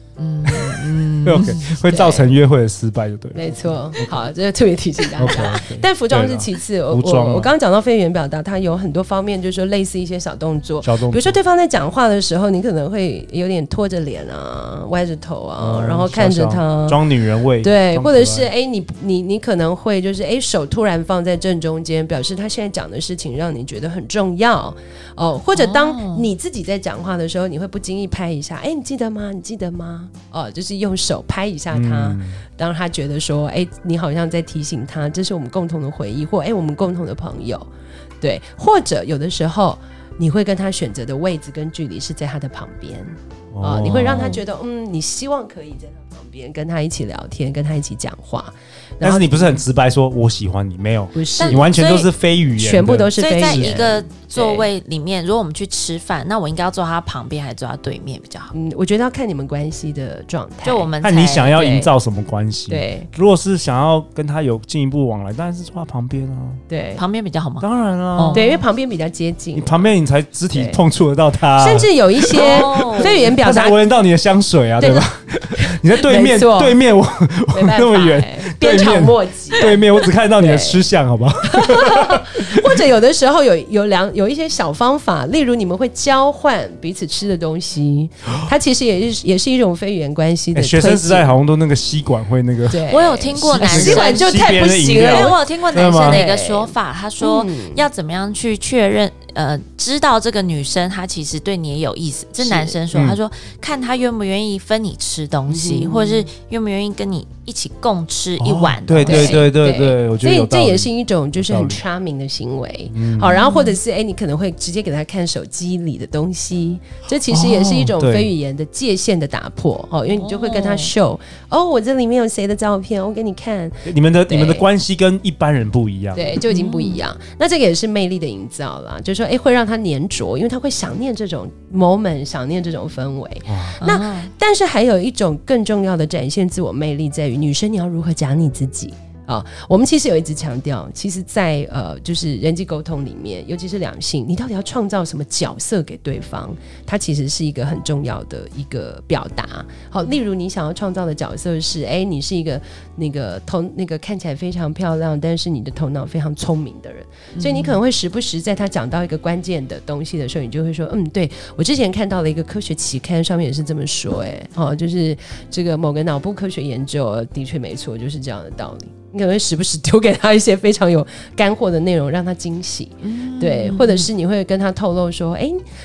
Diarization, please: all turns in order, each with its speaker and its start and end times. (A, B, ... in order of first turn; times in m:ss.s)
0:00.2-0:01.8 A
0:00.4-0:04.1 B
0:01.8-0:02.3 C
0:03.3-0:17.0 C
0:05.2-0:07.5 B
0:10.8-0:11.4 B
0:15.6-0:18.5 B
0:17.6-0:37.7 C
0:25.5-0:26.3 A
0:31.7-0:32.4 B
0:38.2-0:49.6 C
0:43.5-0:44.4 B
0:44.1-0:44.4 A
0:49.0-0:53.7 B
0:51.1-0:51.7 C
0:51.4-0:52.1 A
0:52.6-0:54.7 C
0:53.2-0:58.5 A
0:58.5-1:00.9 C
1:00.6-1:01.6 A
1:01.0-1:06.6 B
1:01.5-1:01.9 C
1:02.7-1:03.1 C
1:06.7-1:07.0 C
1:07.0-1:08.6 A
1:07.6-1:08.4 B
1:08.3-1:09.8 C
1:09.5-1:22.7 B
1:10.5-1:10.8 C
1:11.6-1:13.8 C
1:12.3-1:13.3 A
1:14.8-1:16.8 C
1:17.5-1:19.8 C
1:20.4-1:20.8 C
1:21.5-1:31.3 C
1:30.5-1:32.8 B
1:32.7-1:37.9 C
1:32.9-1:49.4 A
1:33.3-1:36.2 B
1:42.4-1:42.8 C
1:45.5-1:46.3 C
1:48.4-1:51.8 B
1:49.0-2:04.6 C
1:52.9-1:53.3 B
1:53.2-1:53.8 A
1:57.3-1:58.3 B
2:00.1-2:00.9 A
2:03.8-2:06.4 B
2:06.1-2:55.6 C
2:06.5-2:07.0 A
2:13.5-2:13.8 B
2:13.8-2:14.3 A
2:37.3-2:37.8 A
2:53.0-2:54.1 A